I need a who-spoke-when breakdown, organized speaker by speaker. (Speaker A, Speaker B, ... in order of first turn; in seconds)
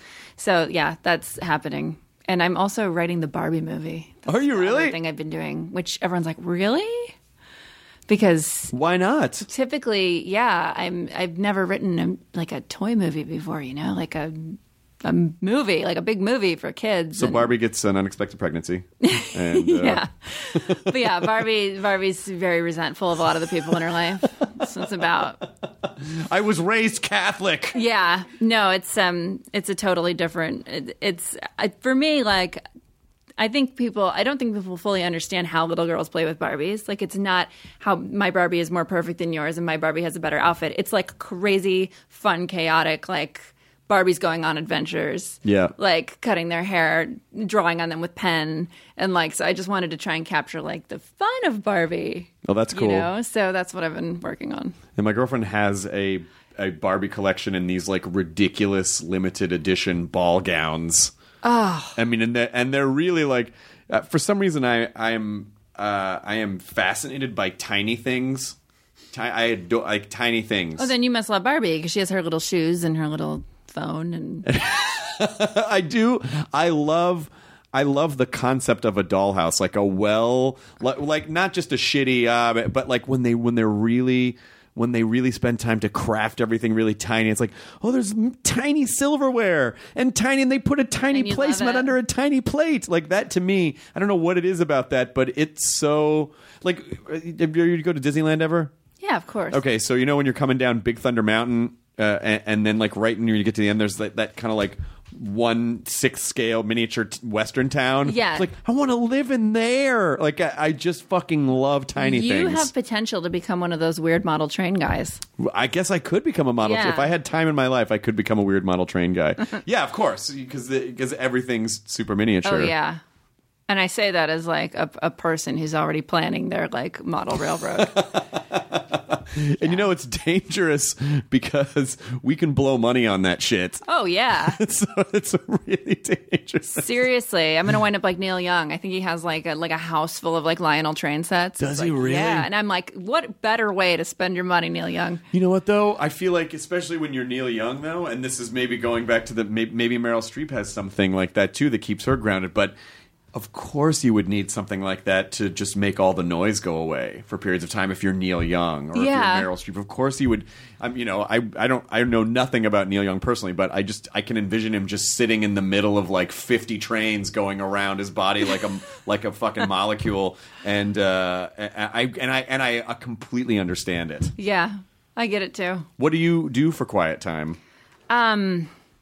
Speaker A: 0.4-7.1, 8.1-8.7, 9.5-17.5, 19.0-25.4, 27.7-32.6, 33.4-54.8, 61.4-62.0, 70.8-74.5, 91.1-91.9, 99.0-99.6, 108.0-108.5, 112.0-115.2, 116.6-117.1, 122.5-123.0, 123.7-128.1, 133.8-134.6, 136.7-145.2, 158.9-159.5, 174.4-175.9, 178.1-178.7
Speaker B: 4.3-5.0, 8.7-9.5, 17.1-21.3, 26.0-27.8, 45.4-45.7, 52.5-53.1, 55.0-61.1, 62.0-68.6, 69.1-70.9, 74.5-98.7, 99.5-112.7, 115.4-122.7, 127.8-133.8, 134.5-137.0, 141.6-142.5, 145.3-152.8, 153.3-174.3, 176.0-177.6